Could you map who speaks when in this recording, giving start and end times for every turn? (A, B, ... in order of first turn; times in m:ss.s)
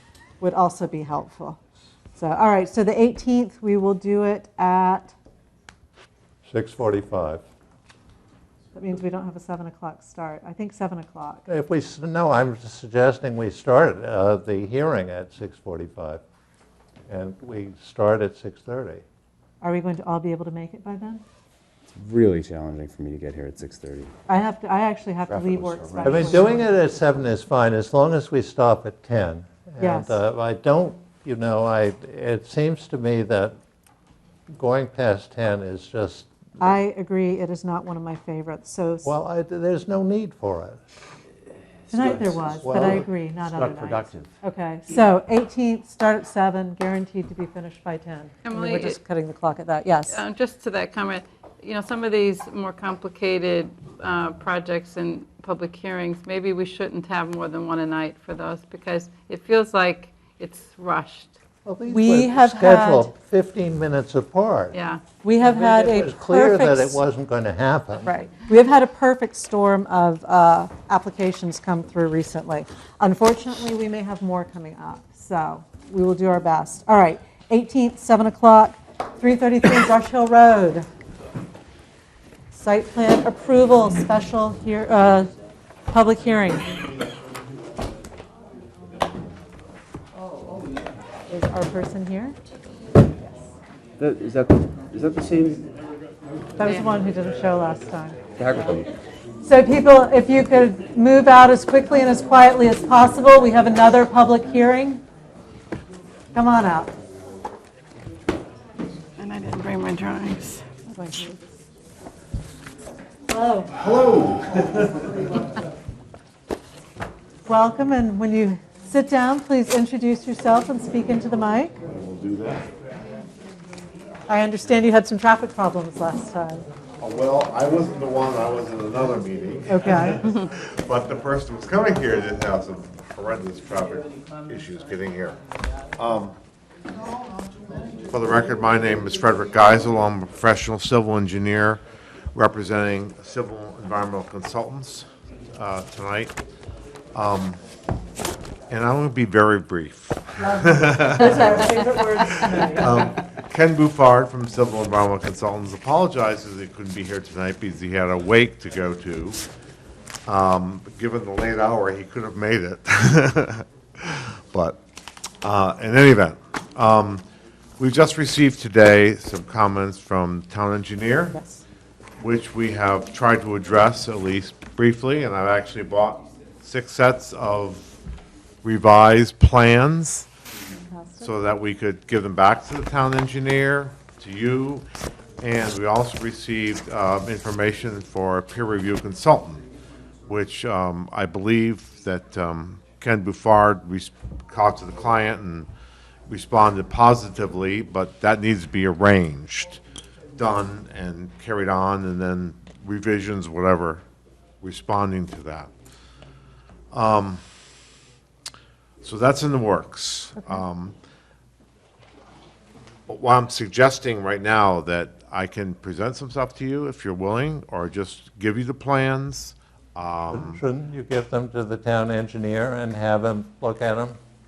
0:00.4-0:01.6 A
0:02.2-0:05.1 A
0:06.5-0:07.4 B
0:08.7-0:11.5 A
0:11.5-0:16.2 B
0:17.1-0:19.0 B
0:19.6-0:21.2 A
0:21.9-0:24.1 C
0:24.3-0:26.7 A
0:25.3-0:26.2 D
0:26.0-0:33.6 B
0:29.8-0:30.2 A
0:34.5-0:36.3 B
0:36.6-0:39.1 A
0:39.0-0:40.8 B
0:41.9-0:50.2 A
0:42.6-0:43.1 B
0:48.4-0:49.0 E
0:50.1-1:01.4 E
1:01.6-1:04.8 B
1:01.9-1:03.1 A
1:04.7-1:05.0 E
1:05.2-1:07.0 A
1:05.4-1:08.1 B
1:08.0-1:20.9 A
1:22.5-1:25.3 A
1:25.9-1:26.7 A
1:31.3-1:32.4 A
1:34.0-1:35.7 D
1:36.6-1:38.2 A
1:38.4-1:38.9 D
1:39.4-1:45.0 A
1:46.3-1:46.9 A
1:49.2-1:51.3 E
1:53.3-1:53.7 A
1:53.8-1:55.2 F
1:57.5-2:01.7 A
2:01.8-2:02.7 F
2:04.3-2:06.6 A
2:07.0-2:15.4 F
2:09.7-2:10.2 A
2:16.0-2:16.4 F
2:18.1-2:21.8 F
2:22.3-2:26.4 F
2:27.1-2:27.6 F
2:28.7-2:39.4 F
2:30.4-2:33.1 A
2:40.3-2:44.8 F
2:45.4-2:47.2 F
2:47.8-2:51.4 F
2:51.3-2:51.6 A
2:52.2-2:57.9 F
2:58.6-3:00.3 F
3:00.7-3:01.4 A
3:01.2-3:04.9 F
3:05.4-3:09.6 F
3:10.3-3:15.7 F
3:16.3-3:19.8 F
3:20.4-3:24.0 F
3:24.6-3:25.7 F
3:26.9-3:27.4 F
3:29.0-3:31.0 F
3:33.1-3:40.6 F
3:40.3-3:44.2 B